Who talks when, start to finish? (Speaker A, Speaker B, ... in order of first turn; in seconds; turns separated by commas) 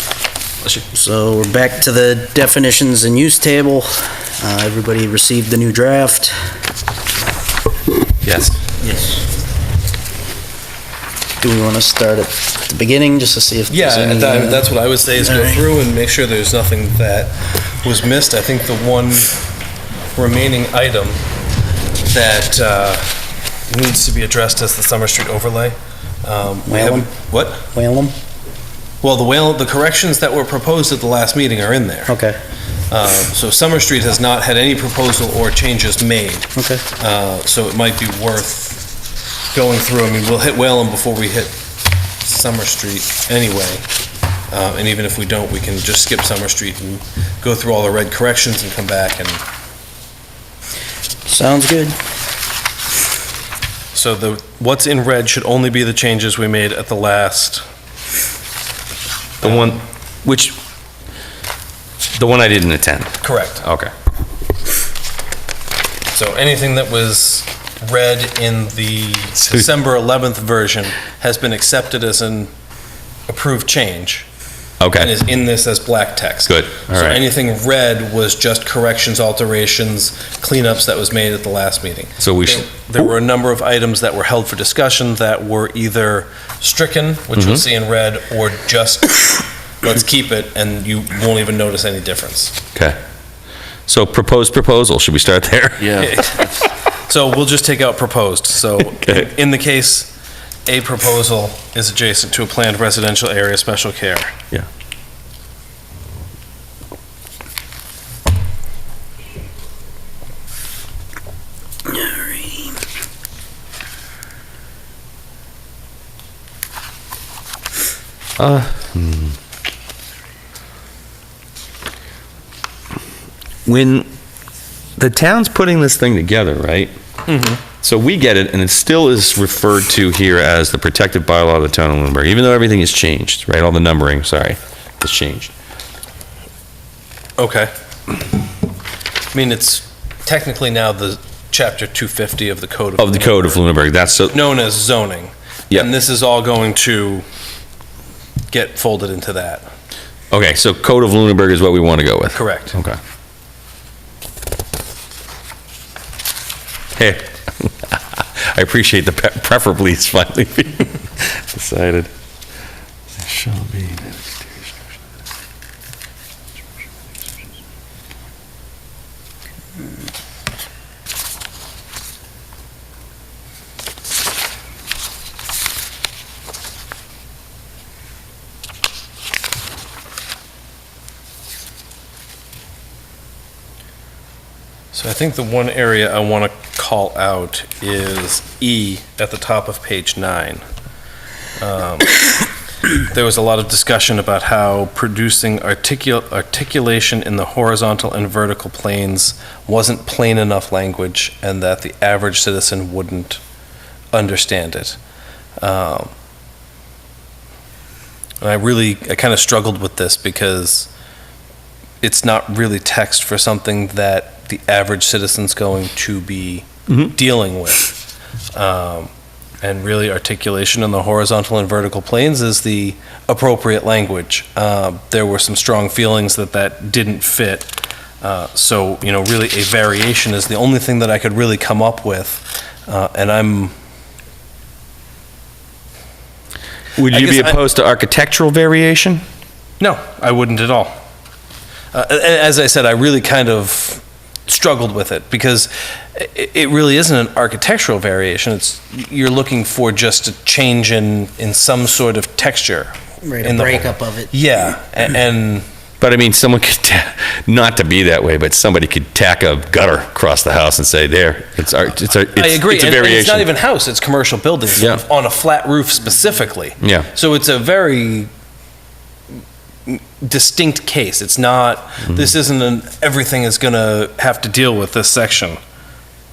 Speaker A: 0.9-6.3, Speaker B: 8.2-8.8, Speaker A: 11.4-14.7, Speaker C: 13.7-19.3, Speaker A: 15.2-15.7, Speaker C: 20.1-21.2, Speaker C: 22.1-27.7, Speaker A: 26.6-27.1, Speaker A: 27.6-28.1, Speaker C: 29.0-32.1, Speaker A: 32.1-32.4, Speaker C: 32.9-38.9, Speaker A: 36.5-36.8, Speaker C: 39.5-41.5, Speaker C: 42.2-43.8, Speaker C: 44.5-49.4, Speaker A: 51.2-52.0, Speaker C: 53.9-57.6, Speaker C: 59.4-59.7, Speaker B: 59.4-60.6, Speaker B: 62.1-63.9, Speaker C: 63.2-63.6, Speaker C: 66.1-72.5, Speaker C: 73.3-74.2, Speaker B: 74.8-75.1, Speaker C: 75.0-92.6, Speaker B: 76.5-77.2, Speaker B: 82.2-82.7, Speaker B: 87.3-87.6, Speaker B: 93.9-96.1, Speaker C: 95.9-96.5, Speaker C: 97.1-100.1, Speaker B: 98.8-99.3, Speaker C: 100.7-104.3, Speaker B: 118.4-119.4, Speaker B: 123.6-124.1, Speaker B: 125.0-126.9, Speaker C: 127.3-127.6, Speaker B: 127.8-135.5, Speaker C: 137.4-137.7, Speaker C: 139.3-143.6, Speaker B: 143.0-144.3, Speaker C: 144.3-147.2, Speaker C: 148.5-149.7, Speaker B: 150.3-153.0, Speaker C: 152.3-152.7, Speaker B: 156.9-162.1, Speaker B: 163.2-164.8, Speaker C: 184.9-190.6, Speaker C: 191.6-192.1, Speaker C: 193.1-203.4, Speaker C: 204.1-205.0, Speaker C: 205.6-206.1, Speaker C: 208.4-210.9, Speaker C: 212.0-217.9, Speaker C: 218.5-233.7, Speaker B: 237.0-239.2, Speaker C: 237.1-237.6, Speaker C: 239.8-240.9, Speaker C: 241.9-255.7, Speaker A: 253.2-254.3, Speaker B: 256.0-263.5, Speaker C: 262.3-268.3, Speaker B: 264.8-265.0, Speaker B: 266.8-267.1, Speaker C: 269.9-275.6